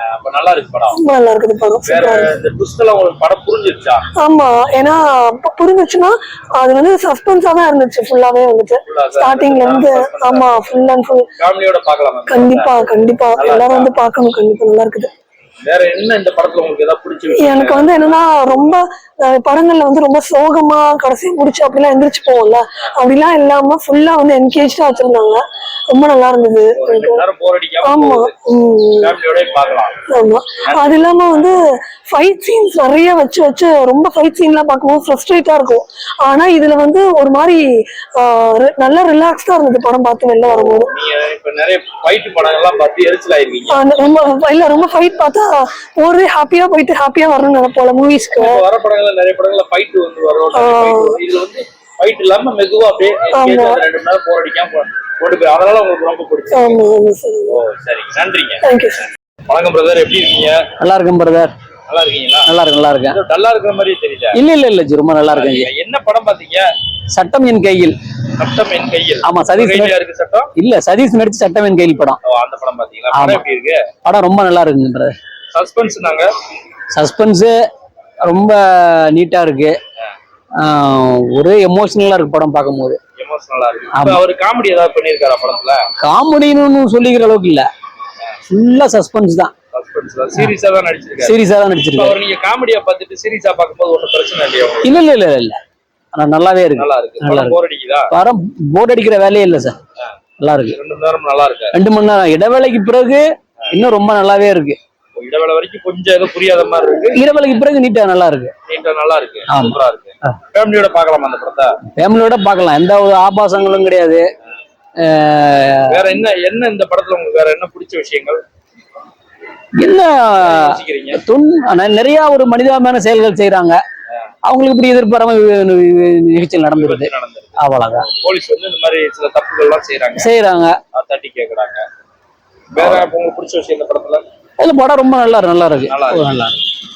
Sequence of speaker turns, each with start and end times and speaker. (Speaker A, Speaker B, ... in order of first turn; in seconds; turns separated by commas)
Speaker A: 0.2-1.0, Speaker B: 0.9-2.3, Speaker A: 1.8-4.0, Speaker B: 4.2-11.3, Speaker A: 8.9-10.6, Speaker A: 11.4-13.9, Speaker B: 12.3-15.1, Speaker A: 15.6-18.2, Speaker B: 17.4-27.2, Speaker A: 26.8-28.3, Speaker B: 27.8-29.1, Speaker A: 29.0-30.0, Speaker B: 30.1-37.6, Speaker A: 30.6-31.5, Speaker B: 38.1-40.9, Speaker A: 40.5-43.8, Speaker B: 43.7-48.6, Speaker A: 48.4-56.8, Speaker B: 50.5-51.2, Speaker B: 53.3-53.8, Speaker B: 56.5-57.6, Speaker A: 57.5-58.6, Speaker B: 58.6-59.0, Speaker A: 59.5-60.6, Speaker C: 60.8-61.5, Speaker A: 61.9-62.5, Speaker C: 62.5-63.2, Speaker A: 63.1-64.4, Speaker C: 64.3-65.7, Speaker A: 65.3-66.7, Speaker C: 67.1-68.0, Speaker A: 68.3-70.5, Speaker C: 69.2-69.9, Speaker C: 70.5-72.2, Speaker A: 72.2-73.8, Speaker C: 73.1-73.4, Speaker C: 74.0-75.1, Speaker A: 75.5-76.3, Speaker C: 76.9-77.5, Speaker C: 78.2-79.8, Speaker C: 80.6-83.0, Speaker A: 83.2-85.8, Speaker C: 83.9-84.2, Speaker C: 86.0-87.7, Speaker C: 88.5-89.5, Speaker A: 89.7-91.4, Speaker C: 91.2-92.2, Speaker A: 91.9-95.0, Speaker C: 94.8-95.6, Speaker C: 96.1-97.5, Speaker A: 96.8-98.1, Speaker C: 98.1-99.8, Speaker C: 100.4-100.8, Speaker A: 100.7-101.7, Speaker C: 101.7-104.8, Speaker A: 105.2-107.2, Speaker C: 107.1-108.5, Speaker A: 108.7-111.7, Speaker C: 109.5-109.8, Speaker C: 112.0-114.2, Speaker C: 115.0-116.0, Speaker A: 115.9-118.4, Speaker C: 119.8-123.8, Speaker A: 120.4-121.2, Speaker C: 124.5-128.1, Speaker A: 126.7-130.3, Speaker C: 130.2-130.8, Speaker A: 130.9-131.8, Speaker A: 132.7-134.2, Speaker C: 134.6-136.6, Speaker A: 135.9-136.2